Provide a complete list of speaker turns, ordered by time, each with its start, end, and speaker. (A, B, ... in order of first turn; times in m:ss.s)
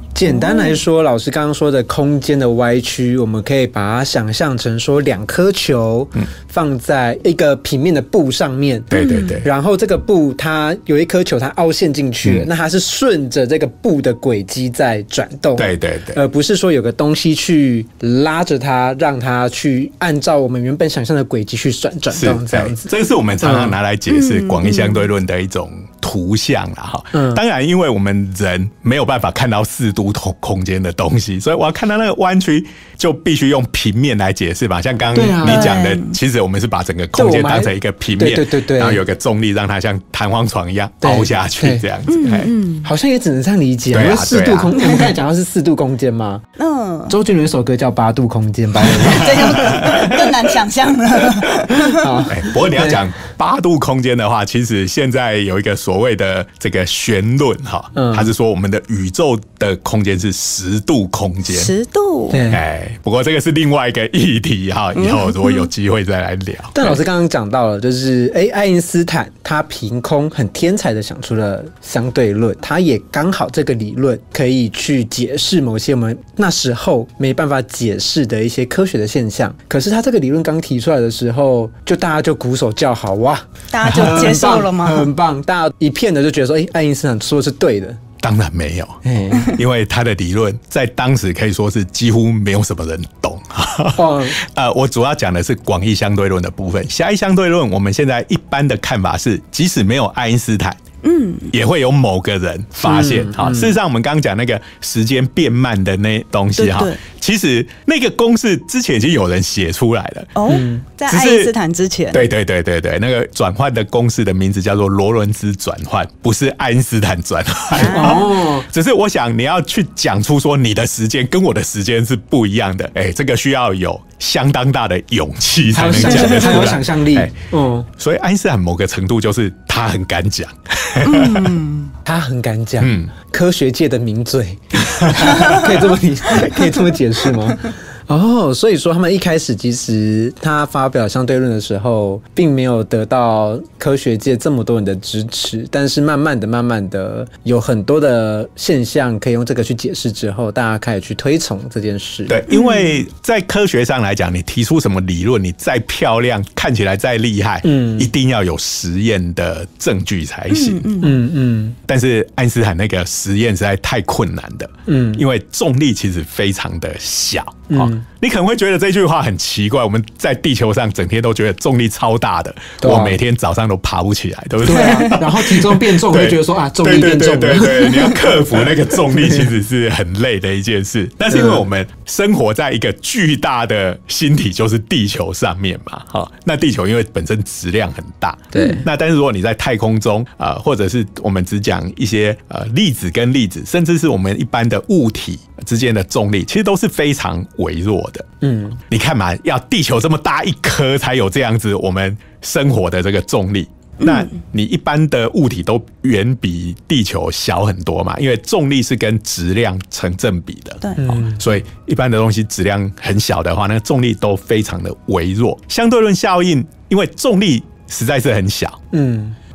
0:00.2-0:22.9 A
0:00.3-0:00.8 B
0:08.9-0:09.5 C
0:08.9-0:09.4 B
0:15.6-0:16.2 C
0:22.1-0:42.5 C
0:23.4-0:23.8 A
0:24.1-0:25.1 B
0:27.1-0:27.4 A
0:35.2-0:35.8 A
0:35.4-0:36.2 B
0:37.2-0:39.0 A
0:41.0-0:41.8 A
0:42.1-0:42.9 B
0:42.8-0:46.4 A
0:43.9-0:44.8 C
0:46.6-0:47.2 B
0:47.1-0:50.1 A
0:48.9-0:50.3 C
0:49.0-0:52.2 B
0:51.7-0:53.0 A
0:52.3-1:01.7 C
0:58.0-0:58.3 A
1:01.5-1:02.4 B
1:02.3-1:02.6 A
1:02.5-1:07.0 C
1:05.0-1:05.7 B
1:06.8-1:28.0 A
1:23.7-1:25.1 B
1:23.9-1:24.3 C
1:28.2-1:40.8 C
1:29.0-1:29.5 A
1:34.0-1:34.4 A
1:41.0-1:41.5 B
1:41.5-1:50.3 C
1:42.8-1:43.8 A
1:46.6-1:47.0 B
1:50.4-1:52.2 B
1:50.5-1:50.8 A
1:51.1-1:51.5 C
1:52.1-2:07.3 C
1:57.7-1:58.3 B
1:57.8-1:58.7 A
2:05.7-2:07.9 A
2:08.0-2:11.6 C
2:11.0-2:11.9 B
2:12.0-2:32.4 A
2:12.8-2:13.1 C
2:14.9-2:15.5 C
2:15.3-2:15.6 B
2:32.3-2:40.8 C
2:32.5-2:33.0 B
2:37.6-2:38.1 A
2:40.5-2:41.2 B
2:41.0-2:41.8 A
2:41.9-3:18.3 C
2:44.9-2:45.2 A
2:47.7-2:48.0 A
2:52.8-2:53.2 A
2:54.6-2:59.5 A
3:01.3-3:01.6 A
3:08.5-3:08.9 A
3:18.4-3:18.8 A
3:18.9-3:38.8 C
3:24.0-3:24.3 B
3:31.0-3:31.4 A
3:38.9-3:39.4 A